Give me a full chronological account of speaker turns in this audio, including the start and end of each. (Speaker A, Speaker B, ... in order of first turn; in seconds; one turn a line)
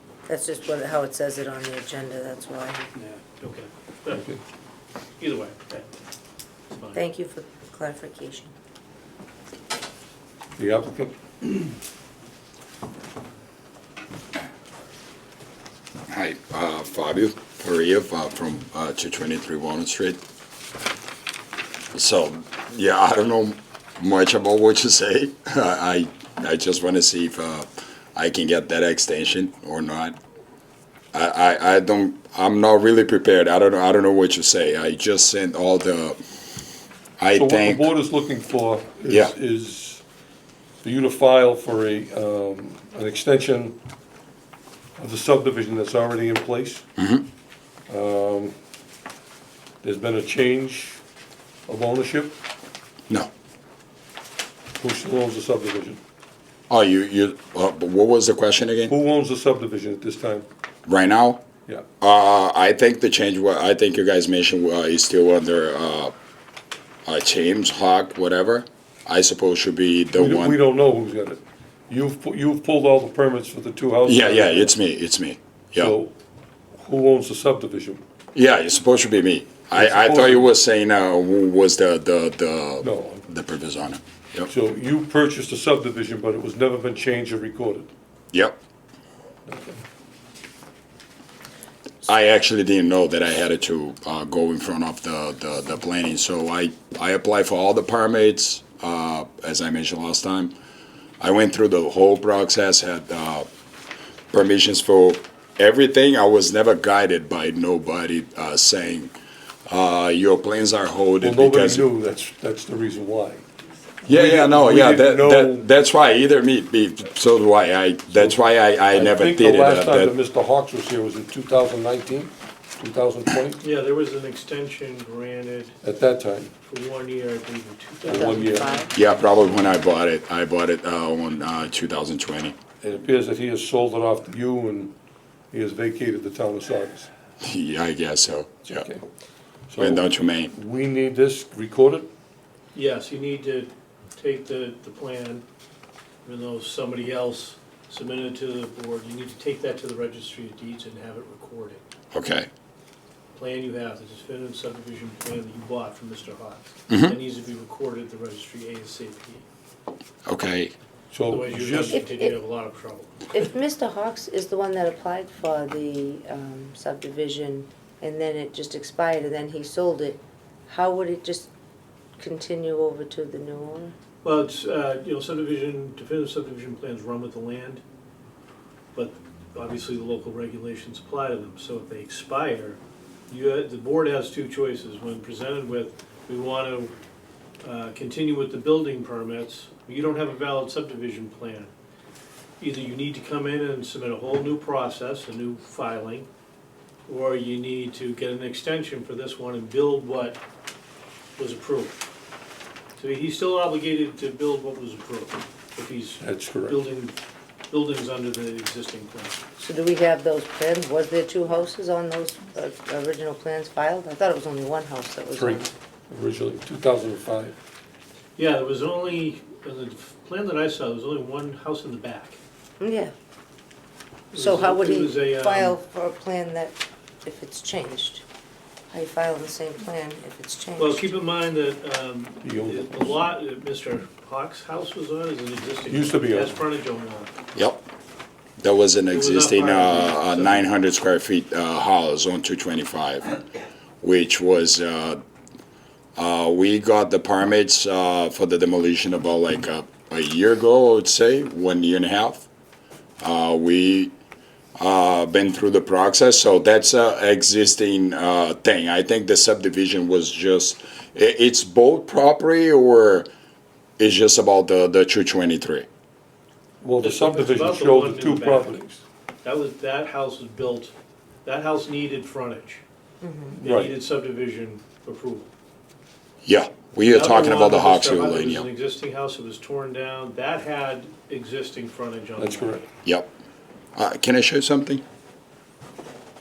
Speaker A: 0.3-2.9
Speaker B: 3.0-4.2
Speaker C: 4.1-4.4
Speaker B: 5.2-5.9
Speaker B: 6.7-7.0
Speaker A: 6.9-8.5
Speaker C: 10.6-11.8
Speaker D: 16.1-20.2
Speaker D: 21.9-30.2
Speaker D: 31.1-36.2
Speaker D: 37.2-37.9
Speaker C: 37.3-40.0
Speaker D: 39.1-39.3
Speaker C: 40.8-43.8
Speaker C: 45.0-46.9
Speaker D: 47.0-47.3
Speaker C: 47.9-48.5
Speaker C: 49.8-51.0
Speaker C: 51.7-52.4
Speaker C: 54.8-56.0
Speaker D: 56.7-58.9
Speaker C: 58.9-60.5
Speaker D: 60.9-61.4
Speaker D: 62.0-66.1
Speaker D: 67.1-70.6
Speaker C: 70.2-74.7
Speaker D: 74.1-75.9
Speaker C: 75.8-76.1
Speaker C: 76.8-78.0
Speaker D: 78.3-84.5
Speaker C: 79.7-80.5
Speaker C: 82.8-83.3
Speaker C: 84.5-87.9
Speaker D: 88.3-88.6
Speaker C: 89.5-89.8
Speaker D: 92.0-100.5
Speaker D: 101.2-103.5
Speaker D: 104.3-109.1
Speaker D: 109.7-111.9
Speaker C: 111.2-113.5
Speaker C: 114.0-115.7
Speaker D: 114.1-120.1
Speaker C: 118.9-123.6
Speaker B: 123.6-125.8
Speaker C: 125.8-126.5
Speaker B: 126.7-128.8
Speaker C: 128.0-128.8
Speaker A: 128.1-128.9
Speaker D: 128.9-132.6
Speaker C: 132.8-134.9
Speaker C: 135.5-137.1
Speaker D: 137.4-138.9
Speaker C: 138.7-139.0
Speaker C: 139.7-142.1
Speaker D: 139.8-140.5
Speaker B: 142.7-145.4
Speaker B: 146.2-151.8
Speaker D: 152.1-152.5
Speaker B: 153.3-159.4
Speaker D: 156.9-157.2
Speaker D: 160.3-160.7
Speaker C: 161.1-162.0
Speaker B: 161.3-163.3
Speaker A: 161.9-162.3
Speaker A: 163.3-171.5
Speaker A: 172.2-173.9
Speaker B: 174.2-177.8
Speaker B: 178.9-186.9
Speaker B: 187.6-191.7
Speaker B: 192.6-196.3
Speaker B: 197.1-200.4
Speaker B: 201.4-202.0
Speaker B: 203.0-207.2
Speaker C: 206.2-206.8
Speaker B: 207.7-209.4
Speaker A: 209.6-215.7
Speaker C: 215.4-217.6
Speaker B: 218.4-222.4
Speaker A: 222.8-223.1
Speaker B: 224.3-225.8
Speaker A: 224.3-228.2
Speaker A: 228.9-231.1
Speaker B: 230.8-237.3
Speaker C: 232.4-233.1
Speaker C: 235.9-236.6
Speaker D: 237.6-237.9
Speaker D: 238.6-243.3
Speaker B: 239.1-240.7
Speaker D: 244.0-245.2
Speaker D: 246.2-252.4
Speaker D: 253.2-254.1
Speaker D: 254.8-263.3
Speaker D: 264.0-265.9
Speaker C: 266.8-269.0
Speaker B: 267.0-268.8
Speaker B: 269.4-270.9
Speaker B: 271.4-272.8
Speaker A: 273.2-273.6
Speaker C: 273.5-273.9
Speaker B: 273.5-275.5
Speaker D: 276.4-278.7
Speaker B: 277.0-282.8
Speaker C: 282.4-282.9
Speaker D: 283.1-283.3
Speaker D: 284.0-285.0